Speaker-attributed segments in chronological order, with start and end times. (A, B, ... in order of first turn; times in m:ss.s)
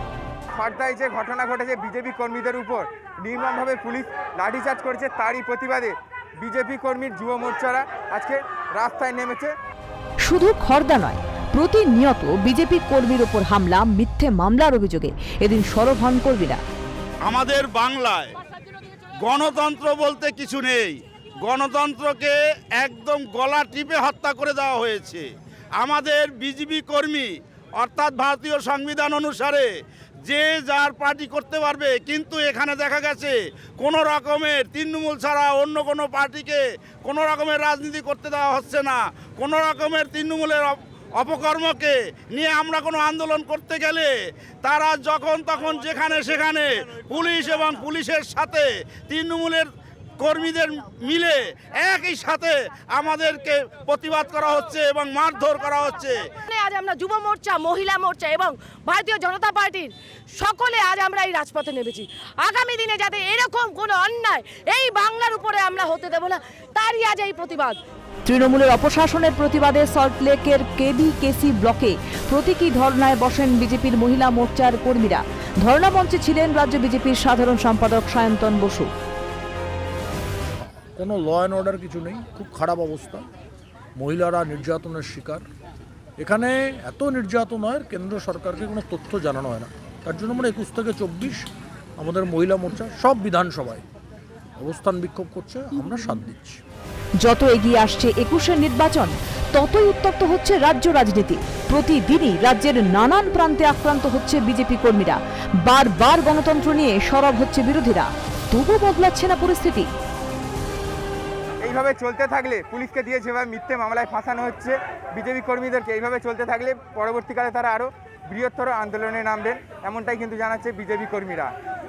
0:00.6-0:09.5 A
0:10.2-0:16.6 B
0:17.3-0:18.4 C
0:19.2-0:25.3 C
0:25.8-0:29.7 C
0:30.2-0:44.1 C
0:44.6-0:49.7 C
0:50.2-0:56.2 C
0:56.5-1:07.8 D
1:08.3-1:18.9 B
1:20.6-1:23.3 E
1:24.0-1:25.4 E
1:26.2-1:33.8 E
1:34.6-1:36.6 E
1:37.2-1:49.9 B
1:51.6-2:01.5 A